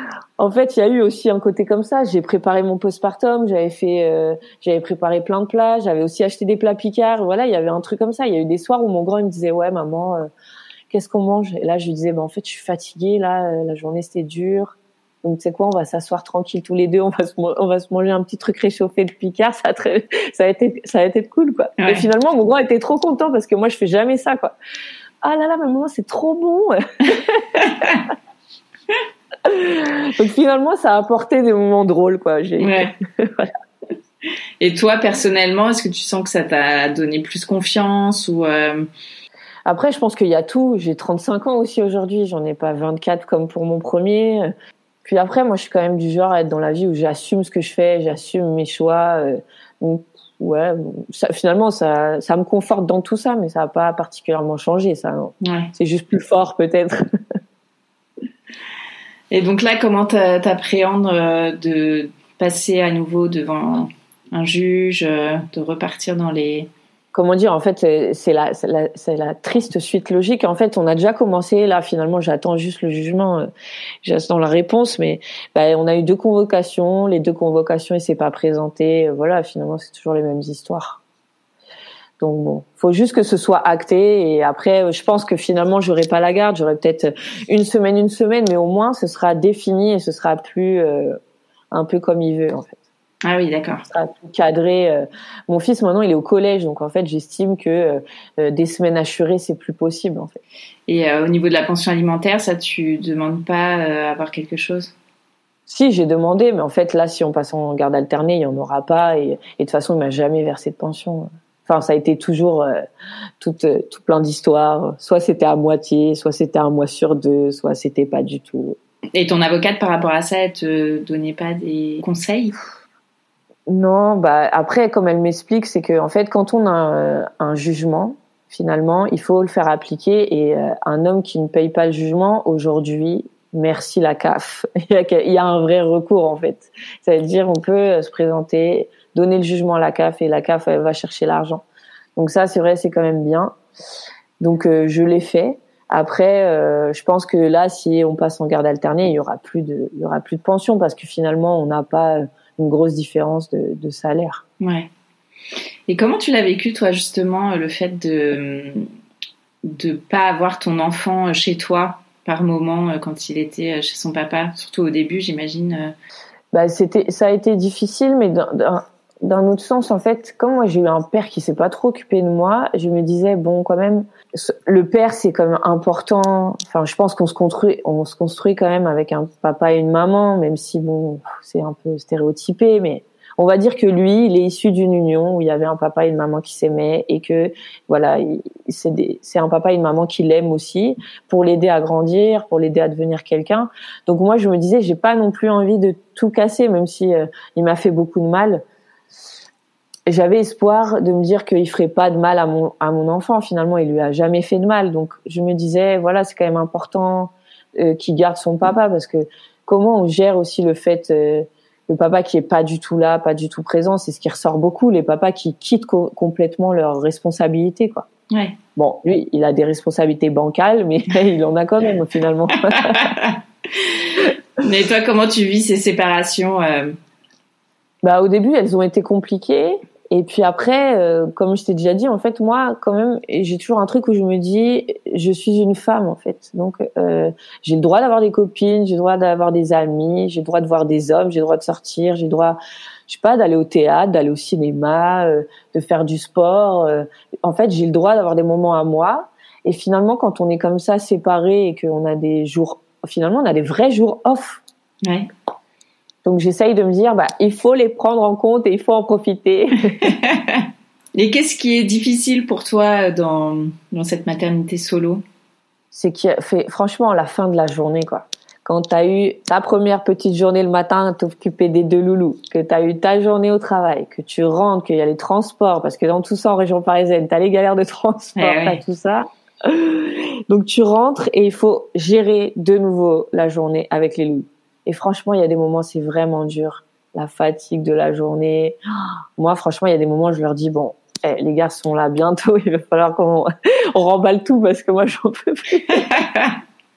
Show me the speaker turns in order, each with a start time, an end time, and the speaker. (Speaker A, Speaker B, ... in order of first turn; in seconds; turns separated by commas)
Speaker A: 0.4-10.3, Speaker A: 10.9-24.5, Speaker B: 21.8-22.1, Speaker A: 25.2-27.7, Speaker B: 27.6-27.9, Speaker A: 29.4-33.5, Speaker B: 32.6-32.9, Speaker B: 34.6-38.9, Speaker A: 39.6-44.5, Speaker A: 45.0-57.0, Speaker B: 55.4-55.7, Speaker B: 59.3-66.7, Speaker A: 67.1-73.5, Speaker A: 74.0-81.0, Speaker A: 82.2-91.2, Speaker A: 91.7-92.8, Speaker B: 93.2-93.8, Speaker A: 93.9-100.4, Speaker B: 100.9-104.9, Speaker A: 105.7-112.8, Speaker A: 113.4-118.8, Speaker B: 119.1-122.6, Speaker A: 123.7-141.6, Speaker A: 142.2-143.6, Speaker A: 144.4-154.4, Speaker B: 154.6-154.9, Speaker B: 155.9-158.8, Speaker B: 159.6-165.9, Speaker A: 166.5-198.6, Speaker A: 200.1-218.1, Speaker B: 218.3-218.6, Speaker A: 218.8-223.1, Speaker B: 222.7-226.9, Speaker A: 228.0-254.6, Speaker B: 255.0-255.3, Speaker A: 256.2-260.0, Speaker B: 260.0-265.2, Speaker A: 265.9-288.8, Speaker B: 278.4-278.8, Speaker A: 289.4-296.1, Speaker B: 295.9-296.6